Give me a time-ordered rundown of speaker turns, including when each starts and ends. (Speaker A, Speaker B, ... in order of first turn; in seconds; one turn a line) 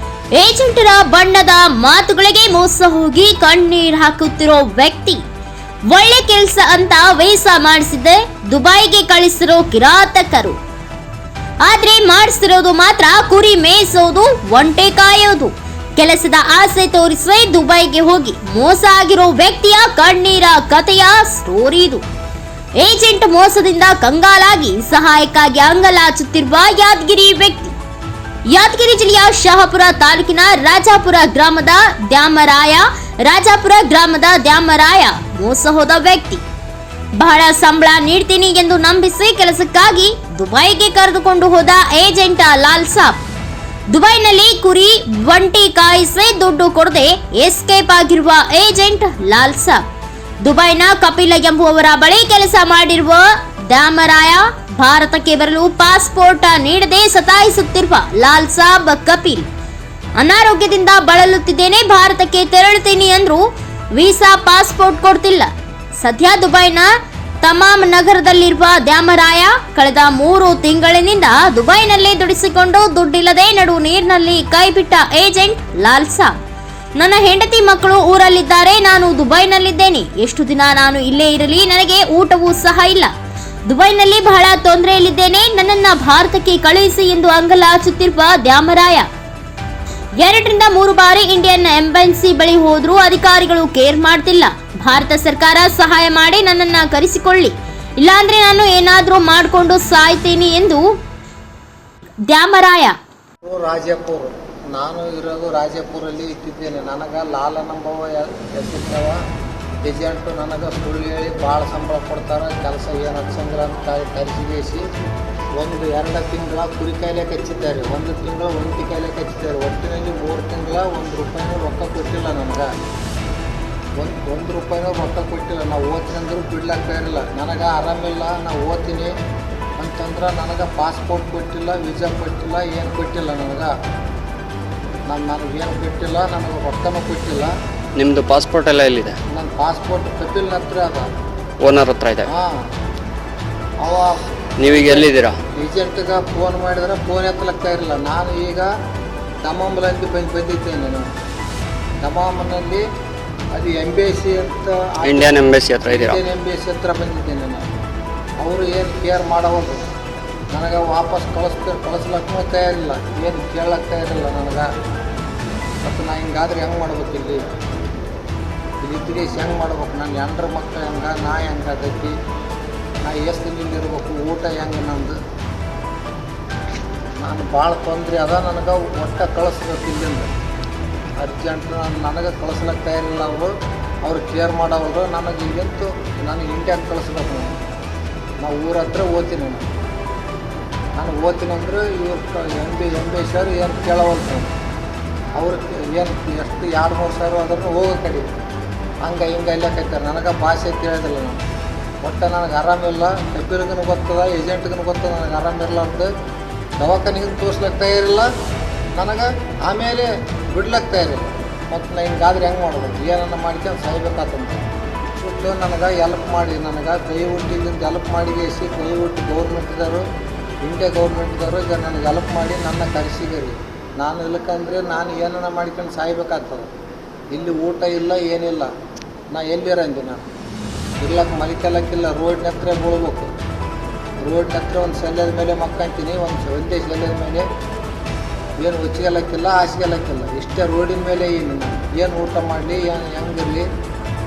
Speaker A: 0.3-5.2
Speaker A: 5.9-10.6
Speaker A: 11.6-22.0
Speaker A: 22.8-27.8
Speaker A: 28.5-36.4
Speaker A: 37.2-43.2
Speaker A: 43.9-49.8
Speaker A: 50.4-59.5
Speaker A: 60.2-63.4
Speaker A: 64.0-66.9
Speaker A: 67.4-76.3
Speaker A: 77.0-83.1
Speaker A: 83.7-89.1
Speaker A: 90.2-100.9
Speaker A: 102.3-103.0
Speaker B: 103.4-109.2
Speaker B: 109.8-114.8
Speaker B: 115.6-122.7
Speaker B: 124.0-129.1
Speaker B: 129.8-133.7
Speaker B: 135.1-137.5
Speaker C: 138.0-139.2
Speaker B: 139.3-141.1
Speaker C: 141.6-142.3
Speaker B: 142.3-142.6
Speaker B: 143.8-148.7
Speaker C: 144.6-145.4
Speaker B: 149.4-151.1
Speaker B: 152.0-152.8
Speaker B: 153.5-157.7
Speaker C: 155.0-156.2
Speaker B: 158.4-159.8
Speaker B: 160.5-164.7
Speaker B: 165.8-167.4
Speaker B: 168.8-172.2
Speaker B: 173.0-175.2
Speaker B: 177.2-180.3
Speaker B: 181.2-183.5
Speaker B: 184.1-187.6
Speaker B: 188.4-189.7
Speaker B: 191.0-194.5
Speaker B: 195.4-198.3
Speaker B: 199.1-201.4
Speaker B: 202.0-206.1
Speaker B: 206.8-208.3
Speaker B: 209.0-214.6
Speaker B: 215.2-220.0
Speaker B: 220.7-226.7
Speaker B: 227.3-228.7
Speaker B: 229.3-230.2
Speaker B: 231.0-233.3
Speaker B: 234.2-237.5
Speaker B: 238.6-243.7